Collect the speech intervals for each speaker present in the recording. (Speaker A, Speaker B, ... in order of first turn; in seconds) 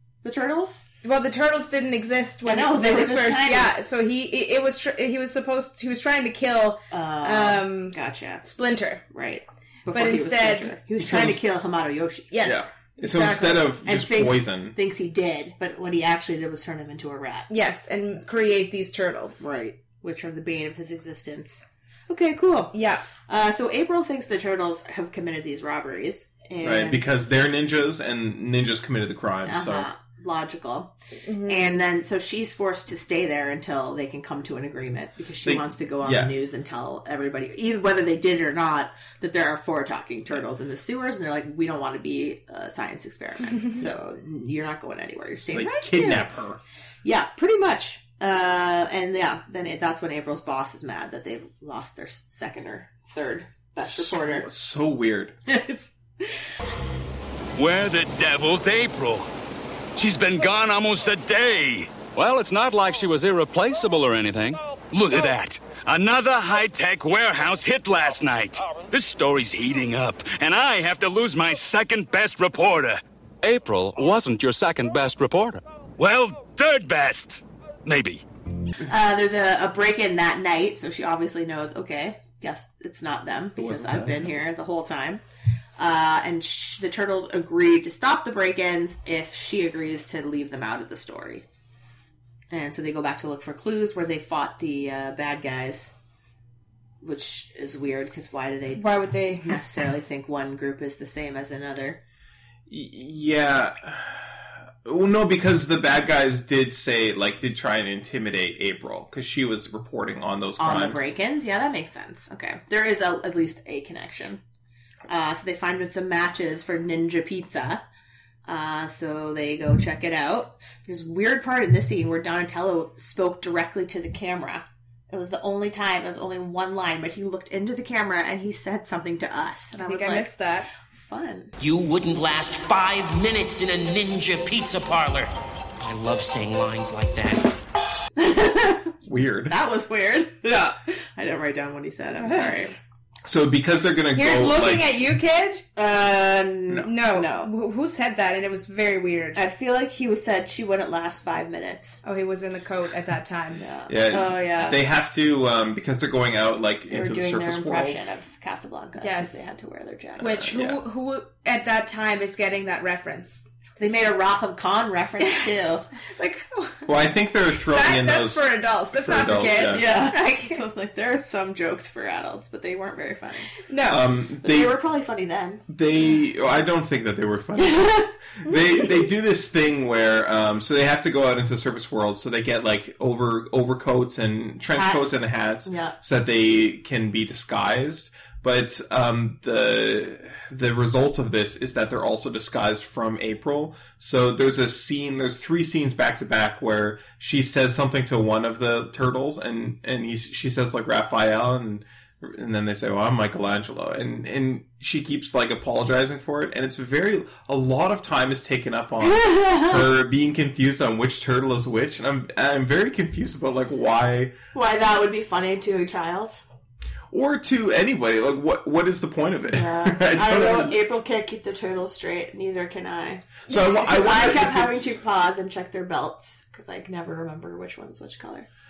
Speaker A: 0.2-0.9, 2.4-3.7, 6.9-8.4, 9.1-12.3, 13.8-17.5, 19.4-22.7, 23.3-27.3, 29.5-30.9, 31.4-46.3, 47.0-54.5, 55.5-55.9, 78.8-85.2, 85.8-91.4, 92.5-95.9, 97.0-98.8, 99.4-102.0, 110.6-114.4, 115.1-117.8, 118.5-130.3, 130.9-131.5, 138.2-138.9, 139.5-142.7, 145.8-147.5, 149.3-152.0, 153.6-154.8, 156.9-160.5, 163.8-165.9, 169.5-173.5, 174.4-175.6, 177.6-178.0, 184.7-185.9, 209.0-209.8, 214.5-216.4, 219.5-228.5
Speaker B: 1.0-9.0, 9.9-10.7, 12.3-13.7, 17.5-19.4, 22.7-23.0, 31.3-31.8, 98.8-99.5, 129.8-130.7, 142.2-142.8, 144.1-145.6, 146.8-149.4, 152.0-153.6, 159.0-159.4, 160.2-163.4, 165.2-166.9, 167.5-170.6, 173.6-174.0
Speaker C: 11.0-11.4, 12.4-14.8, 26.6-29.9, 35.4-36.3, 45.5-46.6, 53.8-55.4, 83.6-84.3, 102.7-111.1, 139.0-139.5, 143.2-145.0, 153.9-158.0, 160.3-160.8, 166.9-169.9, 173.8-174.8, 175.7-214.3, 217.1-220.8, 223.5-225.0
Speaker D: 57.5-59.3, 59.9-78.2
Speaker E: 131.6-137.5